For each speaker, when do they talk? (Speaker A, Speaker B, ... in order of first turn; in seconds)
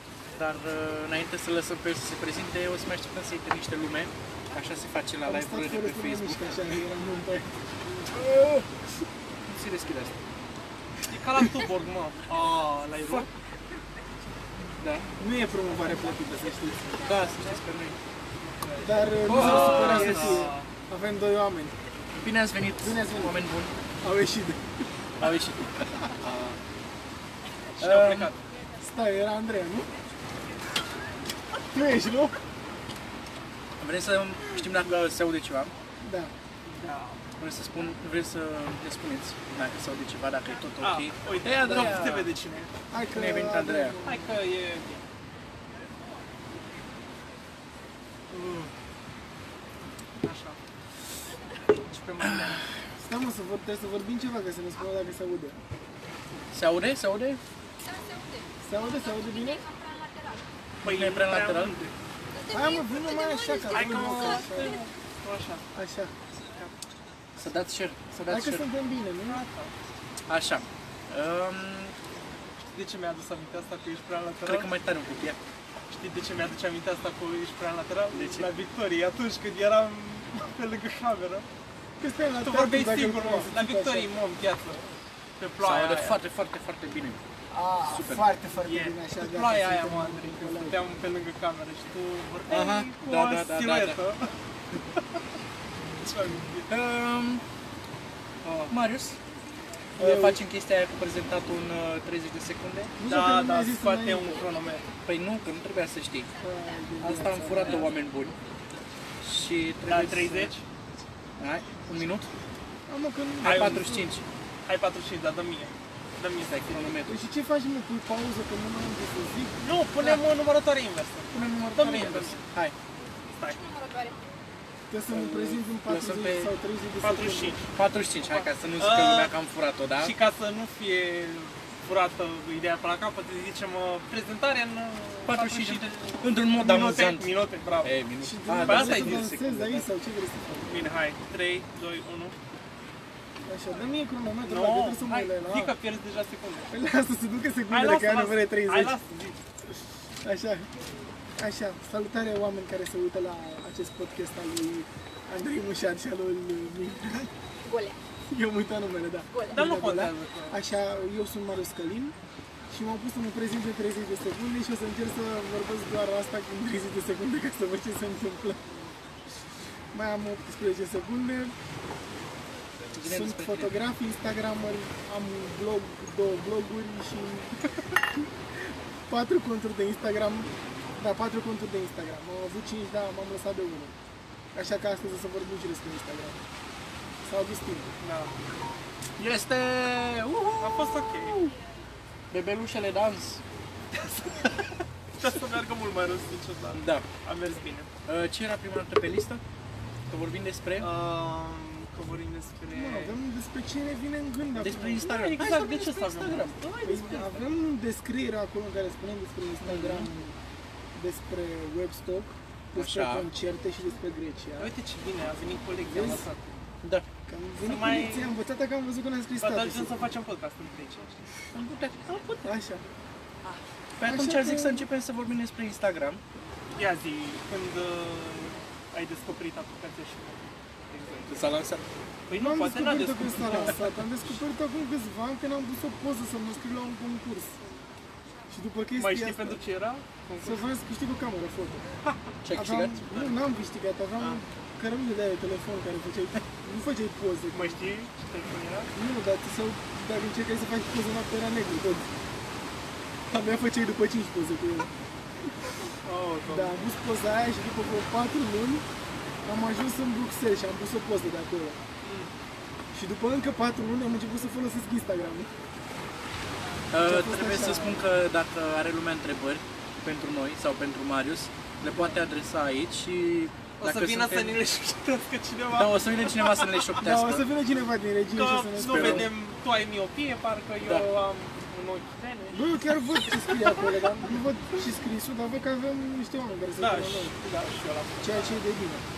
Speaker A: 0.3-6.7, 8.1-8.7, 9.5-10.2, 14.8-15.1, 17.0-18.0, 19.2-20.5, 22.2-23.8, 25.2-26.6, 27.8-28.3, 33.8-35.7, 37.4-42.3, 43.1-44.0, 52.2-52.7, 56.5-57.4, 60.8-61.7, 67.4-68.7, 70.3-71.9, 74.4-75.4, 78.1-78.5, 85.6-87.2, 87.9-88.2, 92.5-94.0, 96.7-97.4, 98.7-99.2, 100.0-102.9, 105.1-106.3, 107.0-108.4, 109.2-110.5, 111.4-112.3, 113.4-114.3, 116.5-117.2, 121.3-122.7, 125.1-126.5, 127.7-130.1, 135.3-139.9, 172.9-173.8, 189.2-191.5, 192.3-193.4, 196.7-197.1, 198.1-199.4, 200.1-200.9, 204.6-206.6, 209.6-210.1, 212.7-213.3, 216.8-217.1, 221.5-222.4, 224.0-226.2, 231.3-231.8, 242.4-243.3, 266.9-274.6, 275.8-277.4, 278.8-279.3
Speaker B: 5.2-7.5, 15.2-17.0, 18.8-21.8, 22.8-23.4, 24.0-24.6, 28.8-29.9, 31.7-32.3, 36.0-36.3, 41.7-42.0, 42.9-44.3, 53.0-55.6, 58.6-59.7, 62.5-64.7, 65.7-66.1, 68.3-69.4, 82.0-84.1, 87.5-90.8, 100.0-100.4, 103.0-104.4, 106.4-107.8, 112.9-114.0, 117.1-119.6, 124.9-127.6, 138.2-140.8, 143.5-145.7, 146.7-149.0, 150.2-150.7, 151.4-157.3, 158.3-162.1, 162.7-168.7, 169.9-171.5, 173.0-177.6, 178.2-183.9, 184.5-186.4, 187.2-187.9, 202.7-205.2, 206.8-210.4, 210.9-214.7, 215.9-216.2, 217.3-220.0, 222.4-222.8, 224.0-224.8, 232.3-237.6, 238.5-239.6, 240.4-241.8, 242.5-247.8, 248.9-252.1, 253.3-254.9, 256.5-258.9, 259.5-261.8, 262.9-265.5, 267.0-268.0, 277.0-279.3, 282.5-287.4, 288.2-289.0
Speaker C: 11.1-13.3, 18.4-20.7, 27.8-28.4, 36.6-37.2, 40.8-42.7, 44.0-45.0, 48.3-48.7, 50.2-50.6, 51.7-52.7, 60.8-61.9, 63.7-65.7, 69.3-69.7, 72.7-74.7, 75.9-81.5, 82.4-84.8, 85.4-86.2, 88.7-94.3, 96.0-96.7, 98.4-98.7, 103.0-104.8, 109.9-110.6, 113.4-114.0, 114.7-117.0, 119.6-122.4, 123.3-123.8, 127.0-129.3, 130.0-137.9, 138.6-139.2, 140.7-142.3, 144.4-146.7, 147.7-149.4, 159.5-160.6, 188.0-188.3, 190.6-191.4, 194.2-194.5, 195.2-197.9, 200.8-203.2, 204.9-207.5, 214.6-216.5, 217.6-218.3, 219.4-221.2, 226.8-231.4, 232.3-234.0, 239.0-240.7, 247.5-248.9, 256.0-256.8, 262.0-262.3, 273.8-276.9, 278.3-284.0, 286.8-288.6
Speaker D: 62.4-64.5, 123.9-124.1, 157.7-158.0